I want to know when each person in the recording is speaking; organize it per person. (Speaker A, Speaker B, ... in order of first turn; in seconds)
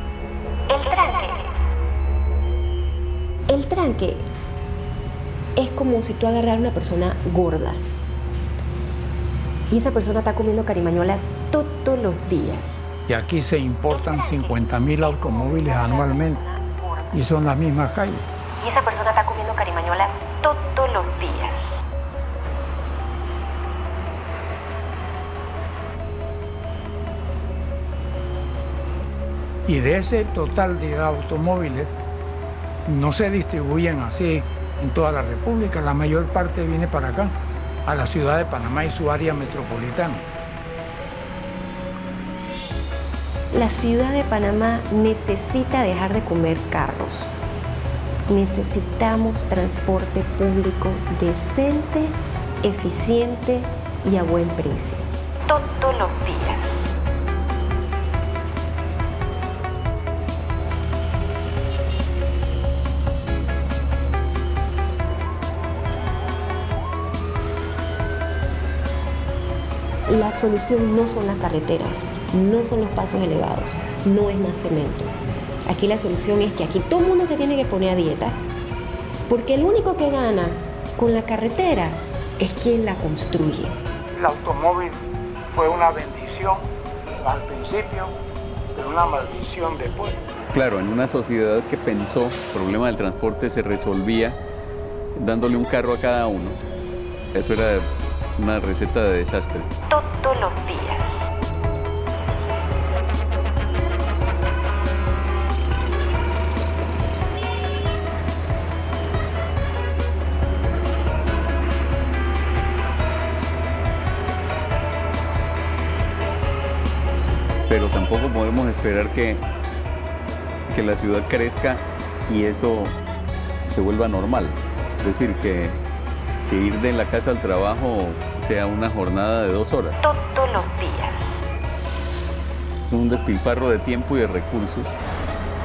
Speaker A: 0.7-1.6, 3.5-4.2, 5.6-7.8, 9.7-12.8, 13.9-17.2, 18.6-21.6, 43.5-47.3, 48.3-56.8, 70.1-75.1, 75.7-78.4, 79.3-83.8, 99.9-101.1, 130.0-131.2
Speaker B: 13.1-16.4, 17.1-18.3, 29.7-31.9, 32.9-37.4, 37.9-40.2, 84.2-86.7, 87.2-88.1, 88.7-90.2
Speaker C: 90.5-94.4, 95.2-96.6, 97.3-99.7, 117.7-119.4, 120.7-123.0, 123.7-125.8, 126.5-130.0, 132.9-135.0